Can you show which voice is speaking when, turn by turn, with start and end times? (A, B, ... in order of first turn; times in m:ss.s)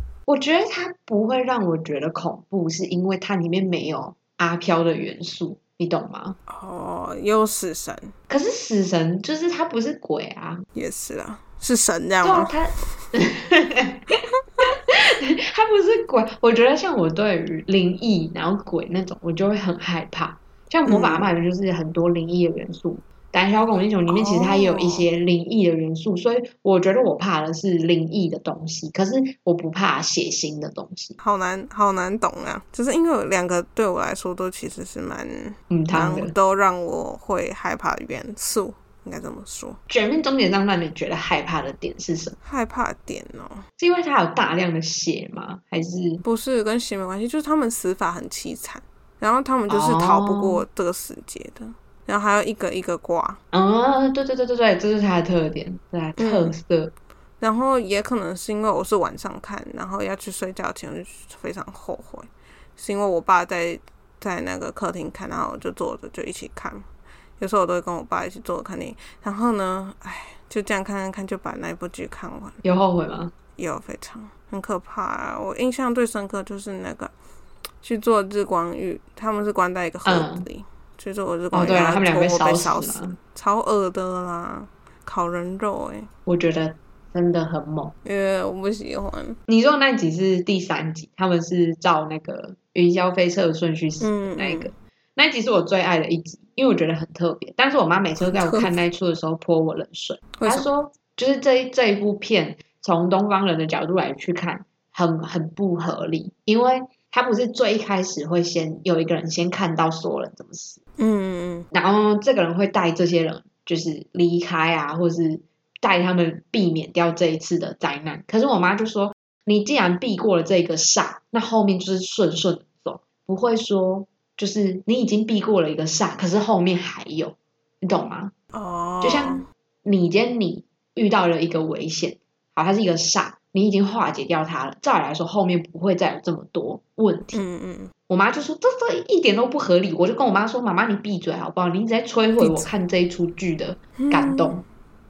0:00.3-0:06.4 A
0:06.5-0:08.1 B
0:08.3-0:10.6 A
0:10.7-0:12.5 B
0:12.2-0:31.2 A
0:20.8-0:21.3 B
0:24.1-0:25.1 B
0:31.2-0:39.8 B
0:35.7-0:36.3 A
0:39.9-0:42.4 A
0:42.4-0:43.6 B
0:43.8-0:46.2 A
0:46.2-0:53.4 B
0:49.7-0:50.6 A
0:53.5-0:56.9 A
0:56.2-0:56.6 B
0:57.4-1:06.8 B
1:07.4-1:12.6 B
1:12.6-1:13.3 A
1:13.6-1:17.1 B
1:17.8-1:26.1 B
1:20.0-1:20.4 A
1:21.5-1:23.2 A
1:26.2-1:27.9 A
1:28.0-1:29.4 B
1:29.5-1:50.8 A
1:34.0-1:34.7 B
1:38.2-1:38.7 B
1:40.4-1:40.7 B
1:51.0-1:51.7 B
1:51.7-2:08.3 A
2:08.5-2:09.4 B
2:09.0-2:17.4 A
2:17.3-2:17.9 B
2:18.1-2:24.6 A
2:22.4-2:22.7 B
2:24.0-2:24.6 B